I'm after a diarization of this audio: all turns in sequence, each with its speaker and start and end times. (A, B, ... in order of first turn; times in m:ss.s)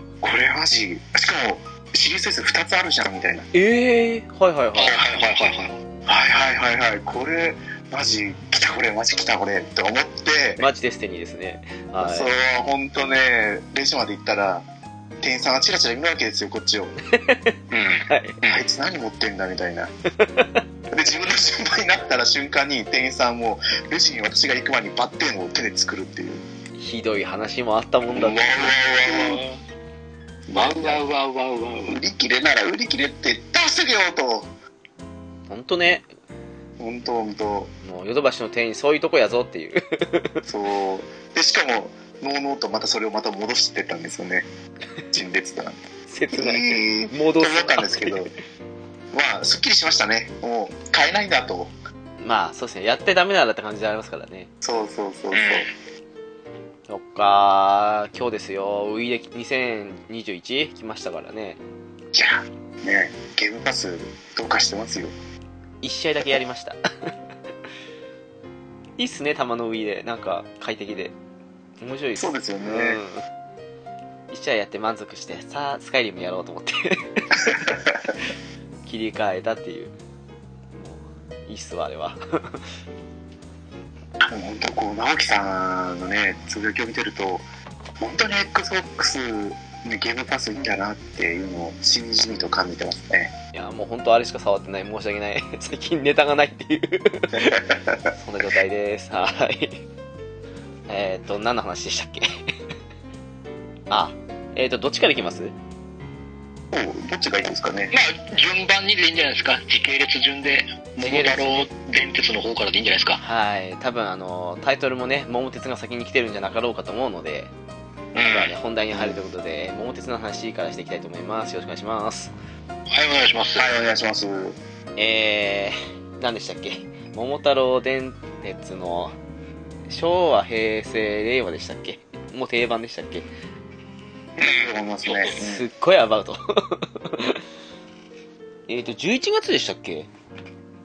0:00.2-0:03.5 A
0:03.5-0:05.0 B
0:04.8-0:05.8 C
0:06.1-0:10.7 A
0:10.6-0:12.3 B
0:12.0-0:14.7 A
0:15.2-0:17.0 A
0:17.1-0:18.4 B
0:17.7-0:18.6 C
0:18.5-0:19.9 A
0:20.2-0:20.6 B
0:20.9-0:26.5 A
0:26.8-0:28.8 B
0:28.2-0:29.6 C
0:29.0-0:29.4 A
0:30.5-0:31.0 A
0:30.5-0:32.0 C
0:31.9-0:34.5 A
0:35.5-0:36.1 B
0:36.8-0:37.7 A
0:37.8-0:40.5 B
0:40.5-0:44.5 A
0:45.1-0:48.3 A
0:46.1-0:48.3 B
0:49.1-0:51.7 A
0:52.2-0:54.5 B
0:54.6-0:55.7 A
0:55.3-0:55.7 C
0:56.9-1:01.6 B
1:02.1-1:05.1 A
1:05.8-1:07.1 B
1:09.0-1:11.1 B
1:11.8-1:13.2 B
1:12.2-1:13.0 A
1:14.3-1:17.6 B
1:17.4-1:18.1 A
1:18.9-1:19.9 B
1:20.7-1:22.6 B
1:24.2-1:27.5 A
1:28.0-1:33.3 A
1:33.5-1:37.6 B
1:37.4-1:38.1 A
1:38.1-1:39.8 B
1:40.9-1:42.2 B
1:43.9-1:45.6 B
1:46.7-1:47.9 A
1:47.9-1:53.2 C
1:51.0-1:51.7 B
1:53.2-1:57.5 B
1:58.2-1:58.5 C
1:58.2-2:02.3 B
1:58.9-1:59.2 A
2:02.9-2:03.7 C
2:03.6-2:04.6 A
2:05.0-2:09.2 B
2:09.9-2:13.3 B
2:14.4-2:15.4 C
2:14.4-2:15.7 A
2:15.4-2:17.4 B
2:18.7-2:20.1 B